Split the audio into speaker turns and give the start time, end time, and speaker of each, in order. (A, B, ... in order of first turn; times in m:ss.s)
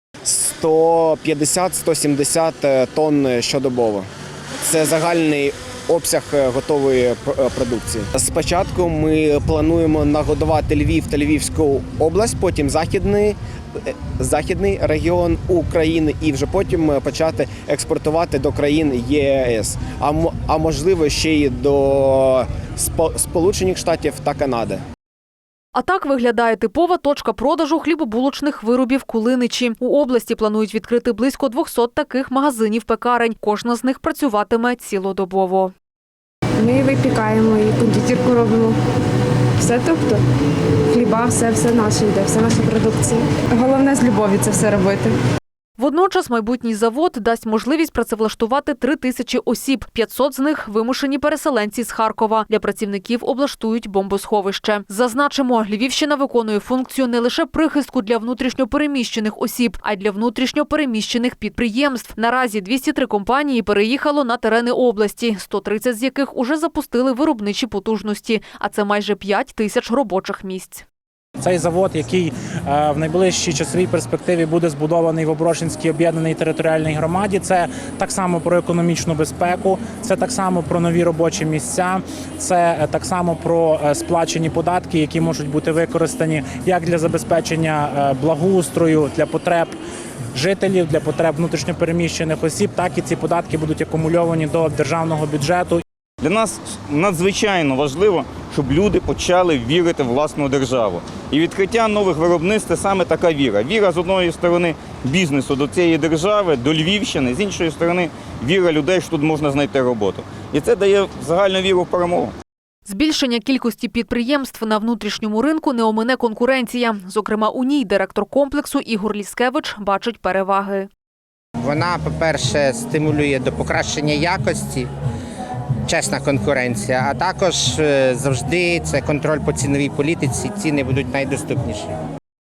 0:00.3-0:04.1 A
0:04.6-0:24.8 A
0:25.7-0:35.7 B
0:36.6-0:38.8 C
0:39.6-0:40.2 C
0:40.9-0:45.2 C
0:45.8-1:10.8 B
1:11.4-1:29.8 D
1:30.4-1:35.8 D
1:36.2-1:52.3 E
1:52.8-2:00.9 B
2:01.6-2:04.9 F
2:05.9-2:11.9 F